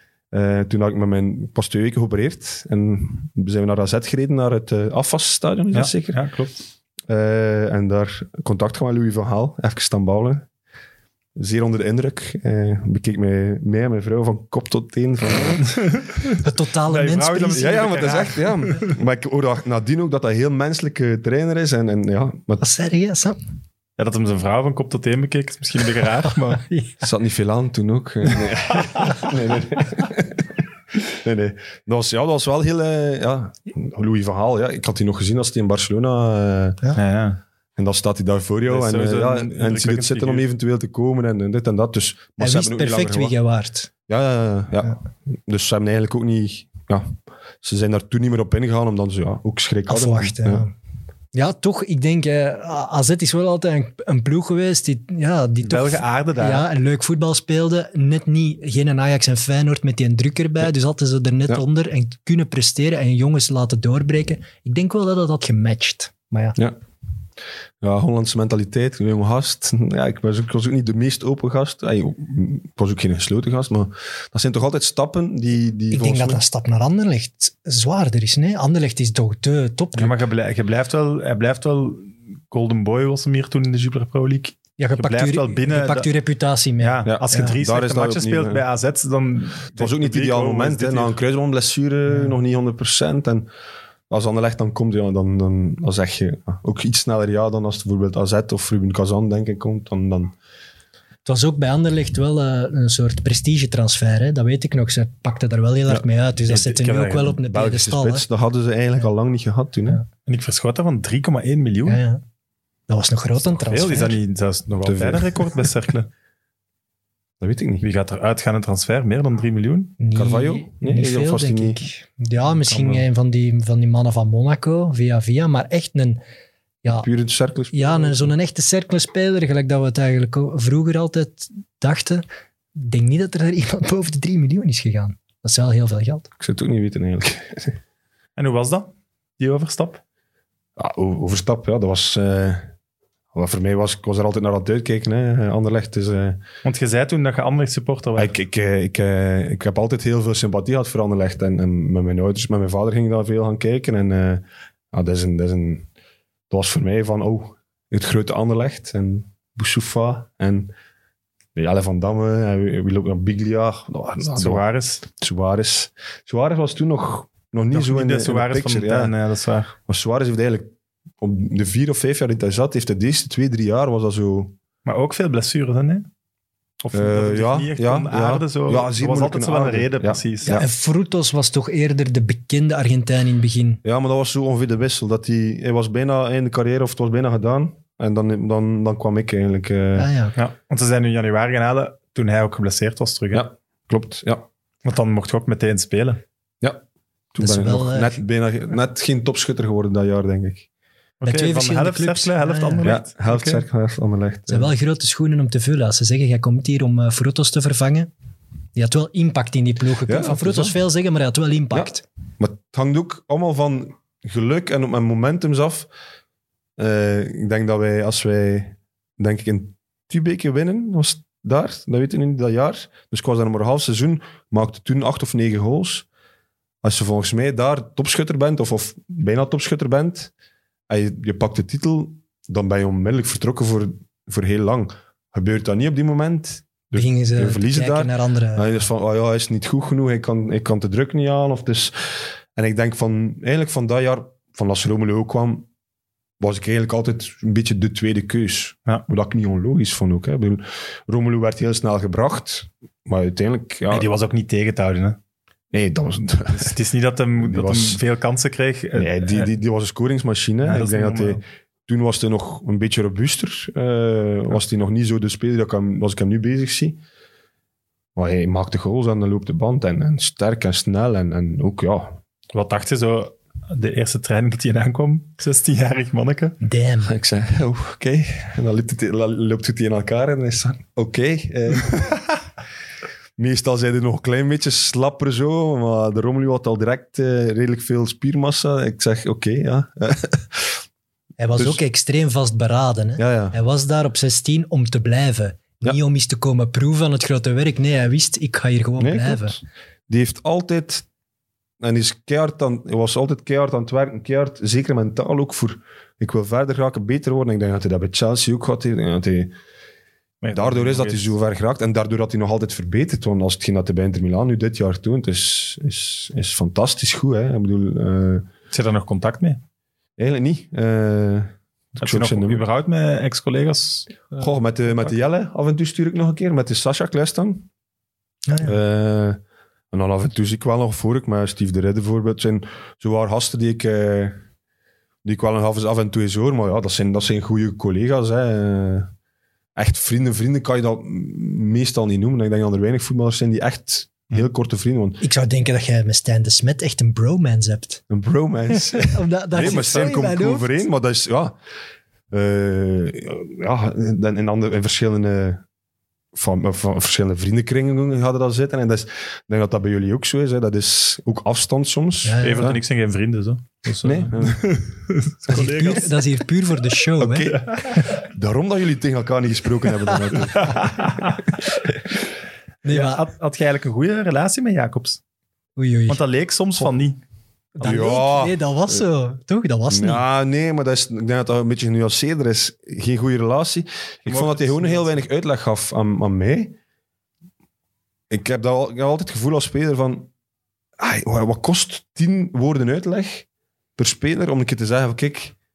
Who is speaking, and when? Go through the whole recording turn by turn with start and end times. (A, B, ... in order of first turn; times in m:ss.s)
0:00.3-0:06.2 A
0:05.7-0:06.6 B
0:07.1-0:10.5 A
0:11.4-0:15.8 A
0:15.7-0:18.9 B
0:16.4-0:17.9 C
0:17.5-0:22.6 A
0:22.6-0:23.4 C
0:24.0-0:26.6 B
0:26.4-0:27.0 C
0:27.0-0:36.8 A
0:37.0-0:37.4 B
0:37.8-0:43.3 A
0:38.7-0:40.4 B
0:42.4-0:43.9 C
0:44.1-0:50.6 A
0:49.9-0:50.7 C
0:51.3-1:06.6 C
0:55.6-0:56.7 B
1:07.8-1:16.4 A
1:15.9-1:20.2 C
1:19.9-1:26.1 B
1:24.8-1:27.6 C
1:26.8-1:31.2 B
1:27.0-1:28.6 A
1:29.8-1:33.5 A
1:34.1-1:40.3 A
1:41.2-1:48.2 C
1:46.5-1:47.4 B
1:47.4-1:50.0 A
1:50.2-1:52.0 B
1:51.9-1:52.2 C
1:52.9-1:54.2 C
1:53.6-1:56.1 B
1:54.7-1:55.5 A
1:57.4-1:57.8 A
1:57.8-1:59.9 B
2:00.0-2:06.2 C
2:00.1-2:01.8 A
2:02.6-2:03.0 B
2:06.9-2:08.3 A
2:07.7-2:12.2 C
2:12.8-2:16.3 C
2:16.4-2:17.8 A
2:18.4-2:20.0 B
2:20.8-2:22.7 A
2:23.3-2:26.4 A
2:26.6-2:28.3 B
2:28.2-2:35.9 A
2:36.5-2:40.7 A
2:41.5-2:49.1 A
2:44.2-2:45.0 B
2:47.7-2:49.7 B
2:49.9-2:54.5 A
2:54.8-2:56.0 B
2:56.8-3:00.6 B
2:56.9-3:00.7 A
3:00.5-3:03.8 C
3:03.8-3:10.1 A
3:10.0-3:10.3 C
3:10.4-3:13.5 B
3:13.3-3:14.4 A
3:14.8-3:16.2 B
3:17.3-3:20.6 A
3:17.4-3:18.2 C
3:21.2-3:23.6 B
3:21.2-3:22.9 C
3:22.8-3:24.7 A
3:24.5-3:28.1 C
3:28.7-3:32.0 C
3:30.1-3:30.8 A
3:31.7-3:35.9 A
3:36.8-3:46.0 A
3:46.8-3:50.3 A
3:50.9-4:05.7 A
3:56.9-3:58.7 C
4:06.4-4:14.1 A
4:13.9-4:15.2 B
4:15.7-4:16.7 A
4:16.4-4:19.5 B
4:17.4-4:18.0 A
4:18.9-4:27.0 A
4:20.6-4:21.4 B
4:28.2-4:32.2 A
4:32.5-4:36.6 B
4:36.6-4:37.1 C
4:37.0-4:42.3 A
4:43.4-4:50.8 A
4:51.4-4:59.5 C
4:51.6-4:51.8 A
4:53.2-4:53.6 A
4:59.0-5:01.0 A
5:01.8-5:09.5 A
5:10.4-5:11.3 B
5:10.5-5:18.4 A
5:18.7-5:19.6 B
5:20.2-5:22.6 A
5:22.0-5:24.4 B
5:24.4-5:27.7 A
5:28.5-5:28.8 C
5:28.6-5:29.4 A
5:29.9-5:34.4 A
5:35.2-5:39.1 A
5:39.8-5:45.2 A
5:45.2-5:48.0 C
5:48.1-5:51.6 A
5:48.7-5:50.7 C
5:52.3-5:55.6 A
5:56.3-6:02.8 A
6:02.2-6:02.7 C
6:02.4-6:06.2 B
6:04.0-6:04.8 A
6:05.5-6:07.5 C
6:07.2-6:11.0 A
6:07.5-6:08.1 B
6:10.5-6:11.4 B
6:12.8-6:13.2 C
6:12.9-6:15.2 B
6:15.8-6:16.2 C
6:16.1-6:17.2 B
6:17.8-6:20.2 C
6:17.8-6:19.0 A
6:19.9-6:26.8 A
6:24.2-6:25.2 B
6:28.3-6:30.3 A
6:31.0-6:33.4 A
6:34.0-6:35.5 A